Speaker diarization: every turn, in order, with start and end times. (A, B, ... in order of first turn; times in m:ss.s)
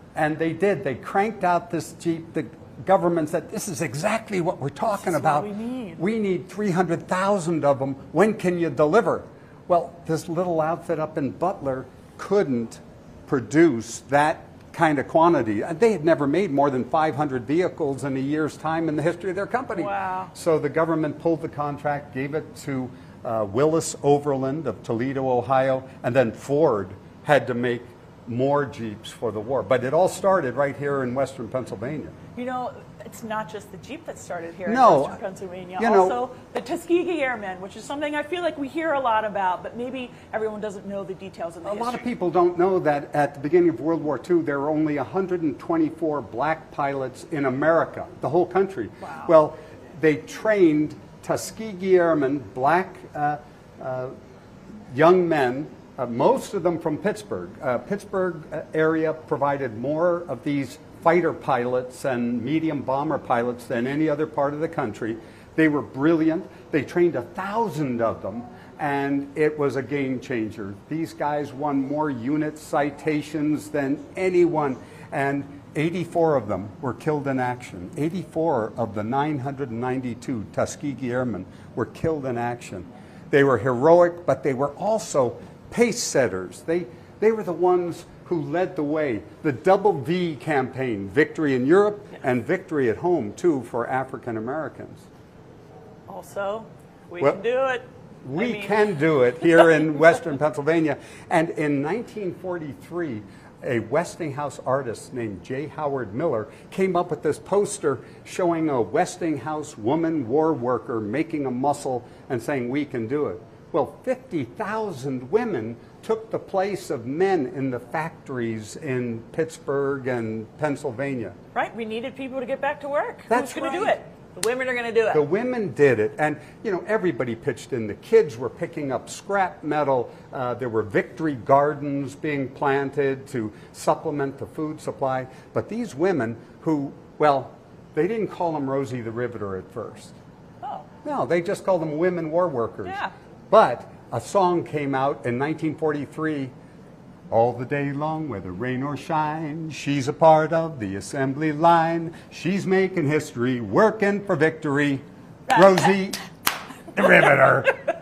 0:00.2-0:32.2 A
0:04.9-0:06.0 B
0:19.7-0:20.3 B
0:32.4-0:42.1 B
0:34.7-0:35.2 A
0:35.8-0:36.2 A
0:41.6-0:54.1 A
0:49.0-0:49.3 B
0:54.9-1:35.1 A
1:36.1-1:38.9 B
1:38.2-2:01.4 A
2:01.5-2:05.2 B
2:03.3-2:04.0 A
2:05.1-2:20.2 A
2:21.0-2:26.5 A
2:22.8-2:23.1 B
2:27.3-2:36.2 A
2:35.5-2:35.9 B
2:36.9-2:37.8 A